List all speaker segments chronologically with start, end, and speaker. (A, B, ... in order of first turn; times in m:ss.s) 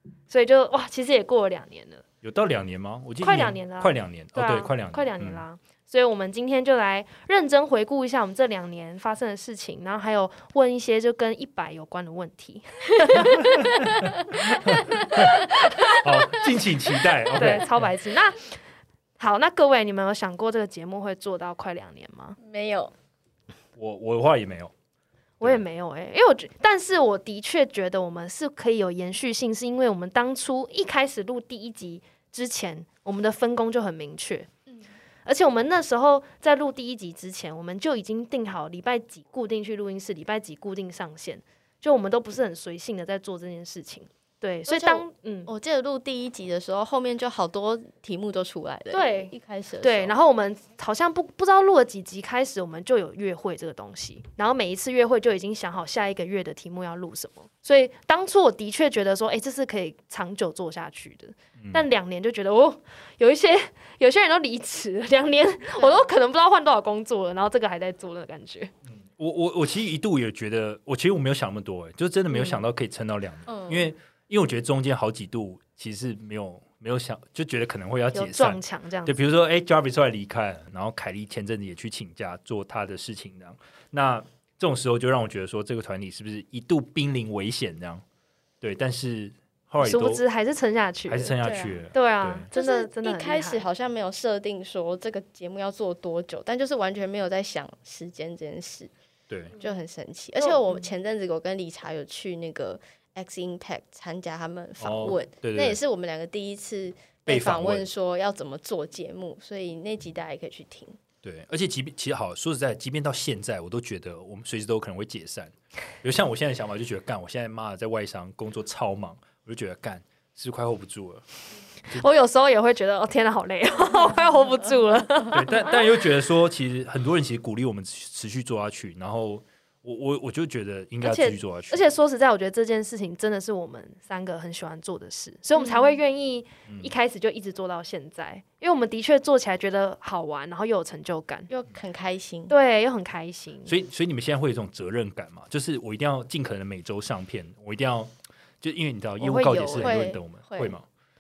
0:00.3-0:02.0 A
0:02.2-0:05.4 B
0:03.2-0:14.0 A
0:13.1-0:16.5 C
0:13.3-0:17.9 B
0:14.6-0:16.0 A
0:17.3-0:18.6 A
0:19.2-0:22.4 A
0:22.4-0:22.9 C
0:23.8-0:24.7 B
0:25.4-0:34.5 A
0:35.2-0:45.5 A
0:44.7-0:50.1 C
0:48.9-1:08.7 A
1:01.6-1:01.9 B
1:05.8-1:06.1 C
1:08.9-1:28.0 B
1:13.5-1:13.9 C
1:18.1-1:19.2 A
1:28.6-1:30.2 B
1:29.8-1:31.4 A
1:31.1-1:32.5 B
1:31.4-1:31.8 C
1:31.9-1:33.7 A
1:32.5-1:38.9 C
1:39.3-1:39.6 B
1:39.6-1:51.0 C
1:44.8-1:45.8 B
1:47.3-1:47.9 B
1:51.2-2:01.3 B
2:01.9-2:05.7 A
2:05.3-2:11.9 B
2:11.0-2:21.5 A
2:15.6-2:16.0 C
2:21.5-2:22.5 C
2:22.5-2:23.7 A
2:23.6-2:30.8 B
2:29.2-2:30.0 A
2:29.7-2:30.8 C